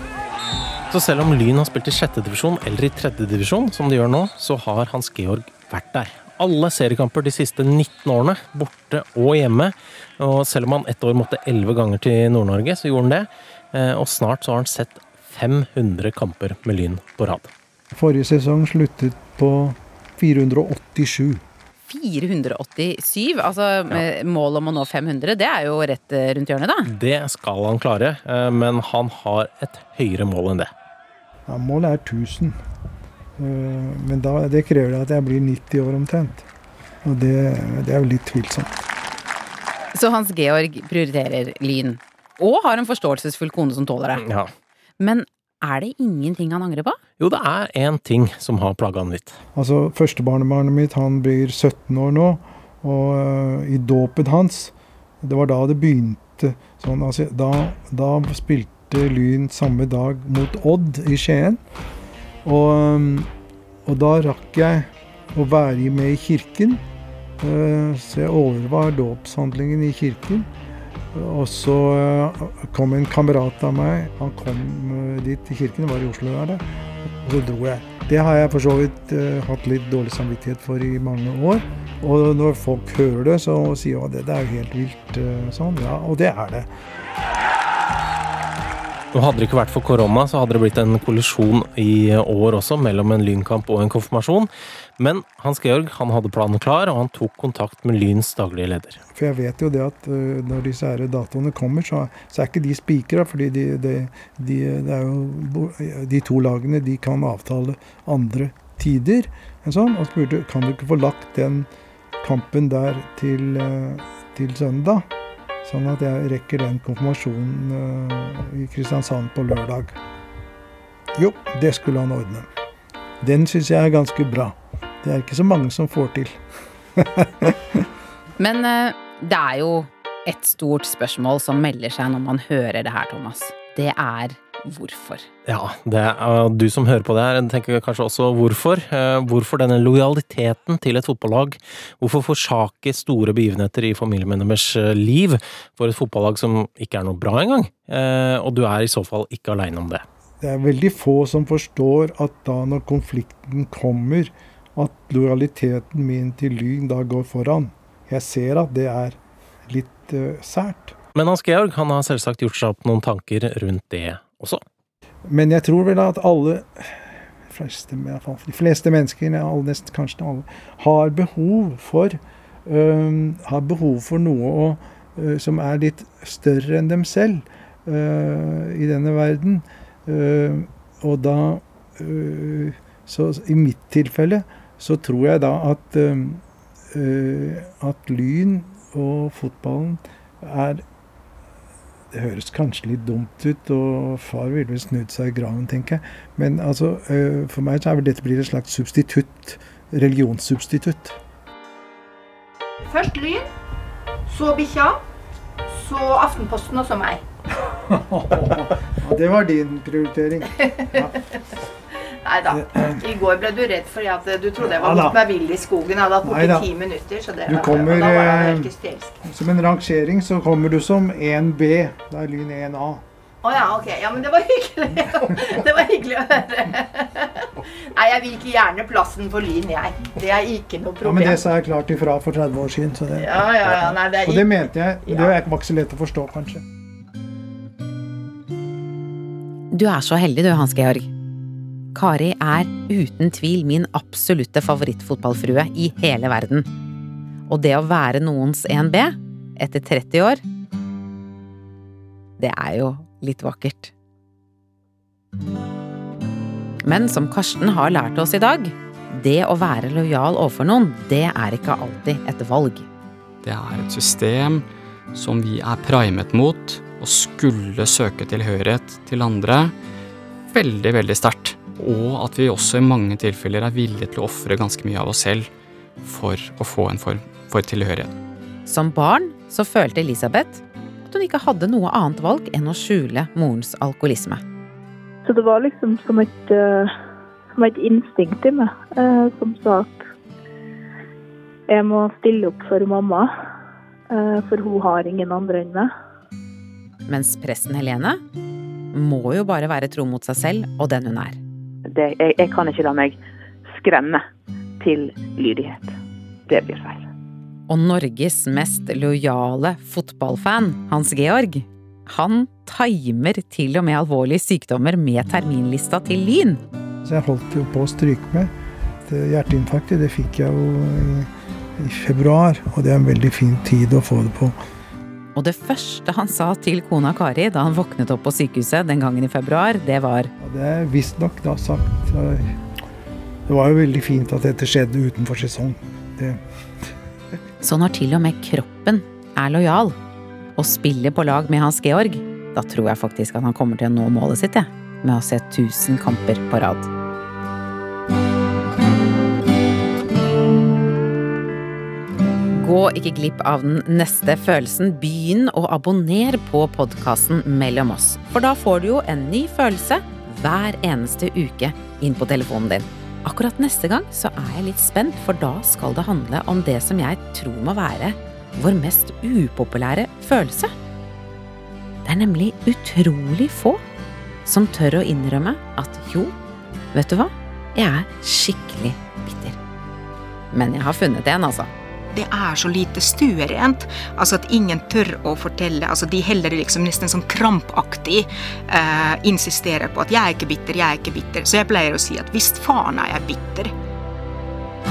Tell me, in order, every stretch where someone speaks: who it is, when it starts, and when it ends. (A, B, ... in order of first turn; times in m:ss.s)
0:00.9-0:17.5 A
0:18.0-0:21.4 B
0:21.9-0:26.9 C
0:26.8-0:30.7 A
0:31.5-0:32.6 B
0:33.4-0:36.4 B
0:37.0-0:38.7 B
0:39.9-0:44.2 C
0:44.2-0:44.5 A
0:45.0-0:47.0 C
0:47.2-0:49.4 A
0:49.6-1:01.6 B
1:02.4-1:03.3 B
1:03.9-1:06.8 B
1:07.4-1:10.5 B
1:11.1-1:16.6 B
1:17.2-1:26.7 B
1:29.1-1:39.0 A
1:39.1-1:51.7 B
1:52.2-1:55.1 B
1:55.6-2:00.0 B
2:01.2-2:02.5 B
2:03.2-2:06.4 B
2:07.0-2:07.5 B
2:08.4-2:15.3 C
2:15.5-2:30.0 A
2:30.4-2:39.2 B
2:39.7-2:40.9 B
2:41.2-2:44.6 A
2:45.3-3:10.8 B
3:12.1-3:21.2 B
3:22.8-3:23.5 D
3:24.3-3:25.0 D
3:25.7-3:27.2 D
3:27.9-3:31.2 B
3:30.6-3:31.4 D
3:32.2-3:39.2 D
3:32.5-3:33.0 B
3:34.6-3:35.2 B
3:36.2-3:36.6 B
3:37.5-3:38.7 B
3:39.2-3:43.0 B
3:43.4-3:51.4 D
3:51.0-3:56.6 B
3:53.2-3:55.4 D
3:59.7-4:01.1 C
4:01.9-4:06.7 C
4:07.5-4:10.4 C
4:12.4-4:13.9 C
4:16.8-4:22.9 C
4:23.4-4:29.7 E
4:30.5-4:35.5 E
4:36.0-4:38.2 E
4:38.7-4:44.4 C
4:45.2-4:46.9 F
4:47.5-4:50.1 F
4:51.7-4:53.3 F
4:54.1-4:55.9 F
4:57.1-4:58.2 C
4:58.9-5:01.4 C
5:01.9-5:04.2 G
5:04.8-5:06.0 G
5:06.5-5:07.1 G
5:07.7-5:16.6 C
5:17.0-5:18.5 B
5:19.0-5:21.3 B
5:21.8-5:24.6 B
5:25.4-5:30.3 C
5:30.4-5:32.5 B
5:33.5-5:36.4 B
5:37.6-5:40.0 C
5:40.6-5:46.9 C
5:52.5-6:10.7 C
6:12.0-6:13.8 C
6:14.5-6:16.3 C
6:16.9-6:19.6 C
6:20.5-6:21.7 C
6:22.1-6:33.7 H